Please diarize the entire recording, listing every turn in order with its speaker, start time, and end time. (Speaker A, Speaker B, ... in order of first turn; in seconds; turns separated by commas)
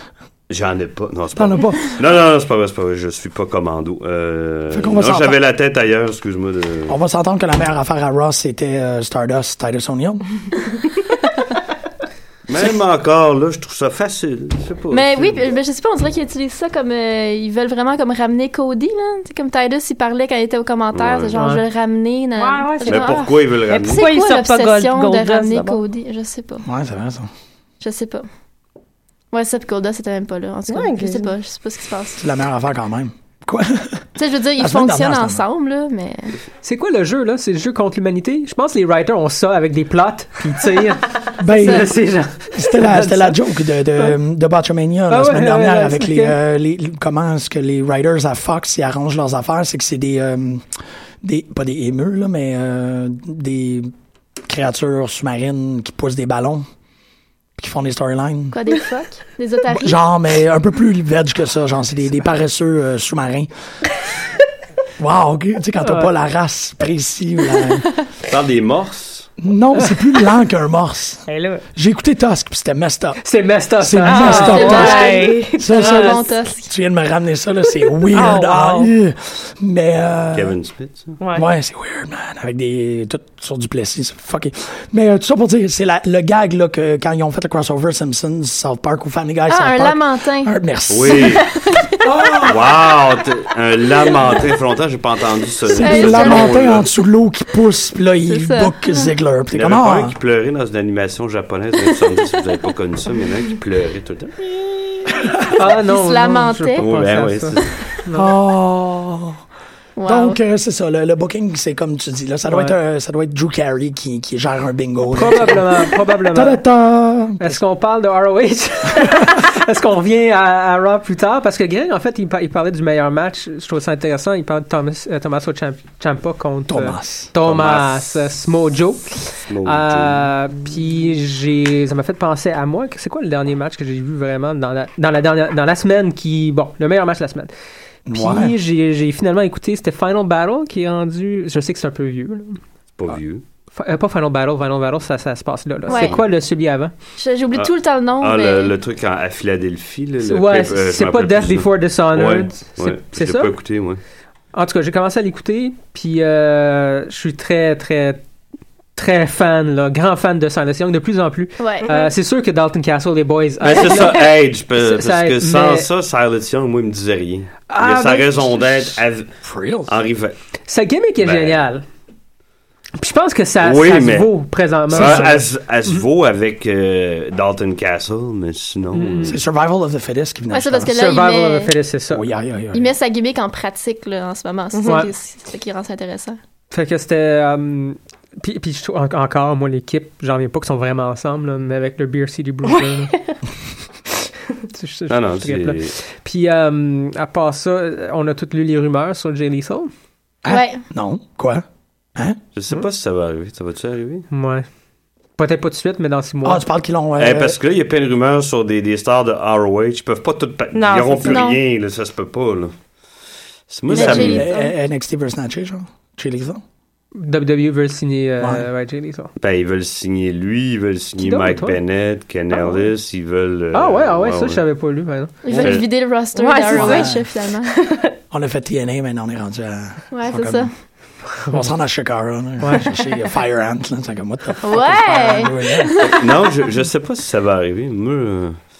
Speaker A: 0.5-7.0, Speaker B: 1.4-2.0, Speaker B: 4.7-5.4, Speaker B: 6.9-10.2, Speaker A: 12.5-15.5, Speaker C: 14.9-26.6, Speaker A: 20.9-21.4, Speaker D: 21.4-21.6, Speaker E: 22.4-25.8, Speaker A: 22.9-24.1, Speaker B: 26.6-27.3, Speaker C: 27.8-28.3, Speaker C: 29.3-32.2, Speaker E: 30.7-31.3, Speaker B: 32.2-35.4, Speaker C: 34.2-36.4, Speaker D: 36.6-43.4, Speaker B: 41.4-41.9, Speaker C: 41.6-41.8, Speaker B: 42.5-53.9, Speaker D: 45.1-46.4, Speaker B: 54.5-56.7, Speaker B: 57.6-58.6, Speaker C: 58.5-60.0, Speaker B: 59.7-63.5, Speaker B: 65.0-67.9, Speaker D: 65.8-66.1, Speaker A: 68.3-69.3, Speaker B: 69.4-73.2, Speaker E: 71.3-71.6, Speaker D: 73.2-74.9, Speaker B: 73.8-80.6, Speaker E: 74.0-76.1, Speaker C: 74.3-76.7, Speaker E: 78.1-78.9, Speaker A: 80.3-81.2, Speaker E: 81.2-81.5, Speaker B: 81.3-91.4, Speaker C: 89.5-90.5, Speaker A: 90.9-91.5, Speaker C: 91.3-91.8, Speaker B: 92.0-92.7, Speaker A: 92.4-96.8, Speaker B: 95.7-100.2, Speaker C: 95.8-96.6, Speaker C: 98.3-99.1, Speaker A: 99.5-104.5, Speaker B: 105.2-105.5, Speaker D: 105.5-108.3, Speaker C: 105.9-106.8, Speaker A: 106.8-107.8, Speaker B: 108.1-109.4, Speaker C: 110.0-110.4, Speaker B: 110.1-117.6, Speaker D: 112.5-112.8, Speaker D: 115.1-116.6, Speaker D: 117.4-137.5, Speaker B: 126.7-127.3, Speaker A: 127.4-128.1, Speaker A: 129.5-130.3, Speaker B: 138.1-138.5, Speaker D: 138.1-142.6, Speaker A: 143.0-143.4, Speaker D: 143.7-146.9, Speaker C: 145.9-146.2, Speaker A: 145.9-146.2, Speaker C: 147.2-148.7, Speaker A: 147.5-154.0, Speaker D: 150.2-153.5, Speaker D: 154.5-158.2, Speaker D: 159.0-165.9, Speaker C: 161.6-162.0, Speaker A: 163.6-170.4, Speaker D: 167.7-168.4, Speaker B: 169.4-169.9, Speaker D: 170.7-171.8, Speaker A: 171.2-171.6, Speaker D: 173.0-176.0, Speaker A: 173.6-174.3, Speaker A: 174.9-179.4, Speaker B: 174.9-175.4, Speaker D: 178.9-179.4, Speaker B: 179.2-180.9, Speaker C: 180.5-181.7, Speaker D: 180.9-182.3, Speaker B: 182.1-183.0, Speaker C: 182.7-186.4, Speaker E: 184.7-185.1, Speaker D: 184.8-185.1, Speaker D: 186.7-193.1, Speaker D: 194.7-199.9, Speaker A: 195.1-196.0, Speaker B: 200.4-201.6, Speaker C: 200.5-200.8, Speaker A: 202.6-204.3, Speaker D: 204.3-204.7, Speaker D: 205.4-206.6, Speaker B: 206.4-207.6, Speaker A: 207.2-212.7, Speaker E: 210.7-211.5, Speaker C: 211.2-211.6, Speaker A: 213.7-214.5, Speaker B: 213.9-216.6, Speaker C: 213.9-214.7, Speaker D: 217.2-219.3, Speaker B: 218.4-218.7, Speaker A: 219.4-224.6, Speaker D: 221.2-221.8, Speaker D: 223.7-225.3, Speaker C: 225.4-227.7, Speaker A: 225.5-225.9, Speaker E: 226.3-228.1, Speaker B: 226.7-227.2, Speaker B: 228.3-230.7, Speaker C: 230.1-230.7, Speaker B: 231.5-236.0, Speaker D: 232.6-232.9, Speaker C: 234.6-236.2, Speaker A: 236.0-238.6